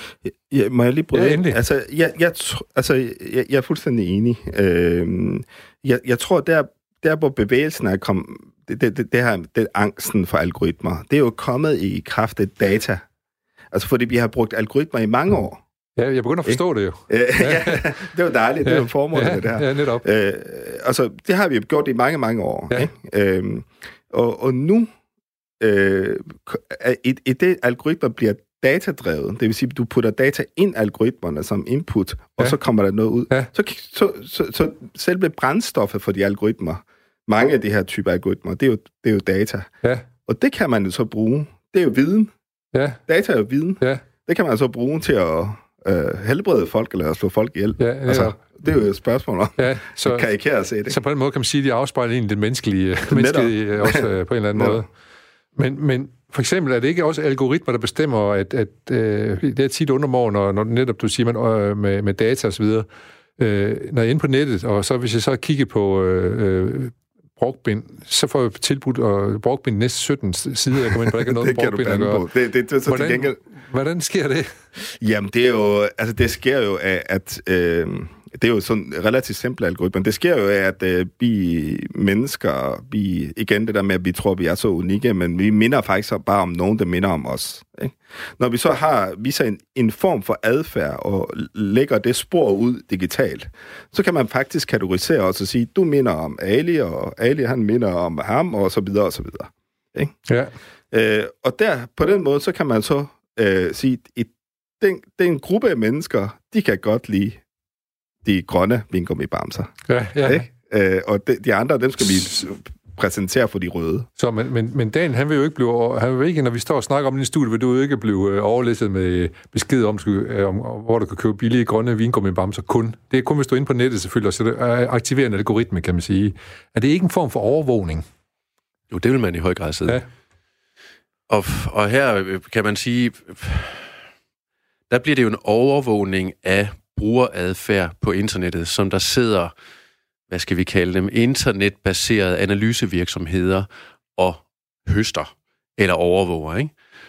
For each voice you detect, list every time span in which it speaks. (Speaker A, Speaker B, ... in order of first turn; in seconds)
Speaker A: 0.2-13.0, 13.7-15.6, 16.5-24.9, 25.6-39.7, 40.3-42.3, 43.1-51.0, 53.1-54.8, 70.9-73.4, 75.0-100.2, 100.9-107.4, 108.2-114.1
Speaker B: 1.1-1.6, 16.0-17.9, 18.6-20.1, 42.7-43.0, 47.8-48.4, 49.6-50.3, 50.9-54.9, 55.6-62.9, 63.4-72.2, 72.9-74.5, 100.3-100.5, 109.9-110.5, 114.2-128.1
Speaker C: 128.9-130.0, 131.3-133.9, 134.9-139.5, 140.3-146.7